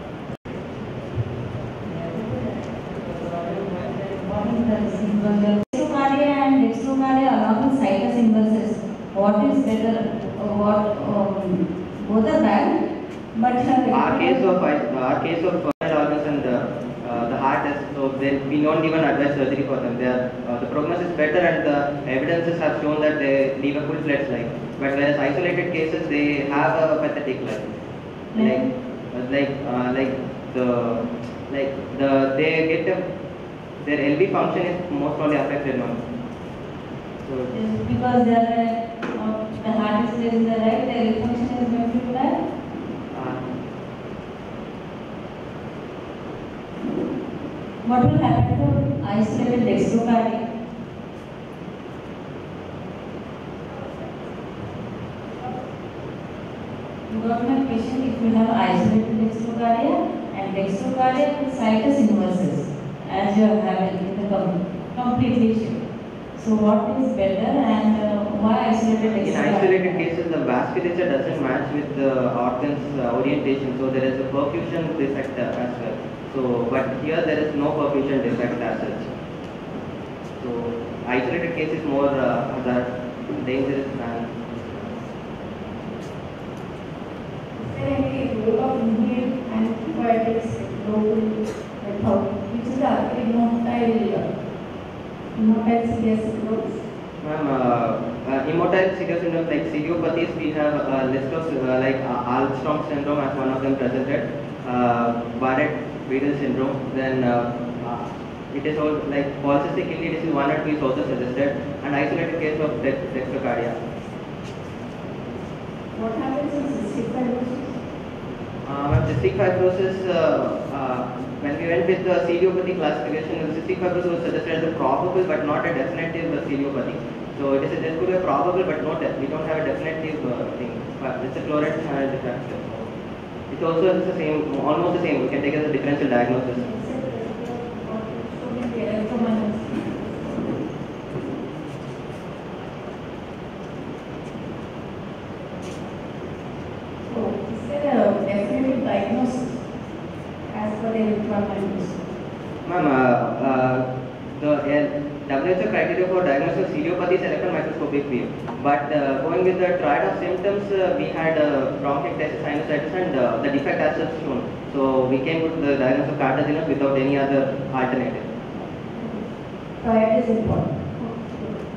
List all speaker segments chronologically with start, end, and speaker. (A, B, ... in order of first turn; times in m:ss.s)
0:01.8-0:12.8 A
0:13.3-0:14.4 A
0:13.9-0:27.8 B
0:28.3-0:28.7 A
0:28.4-0:33.0 B
0:33.8-0:36.0 B
0:37.2-0:37.5 B
0:37.5-0:42.4 A
0:43.1-0:43.5 B
0:47.8-0:50.4 A
0:57.1-1:05.8 A
1:06.3-1:10.0 A
1:09.1-1:19.1 B
1:20.4-1:24.7 B
1:27.6-1:34.3 C
1:35.3-1:36.8 C
1:37.2-1:53.8 B
1:55.9-1:57.8 C
1:58.6-2:12.9 B
2:13.5-2:16.6 B
2:16.6-2:20.6 C
2:27.1-2:29.6 C
2:30.5-2:32.0 C
2:32.6-2:48.3 B
2:48.9-2:49.2 C
2:49.8-2:51.6 C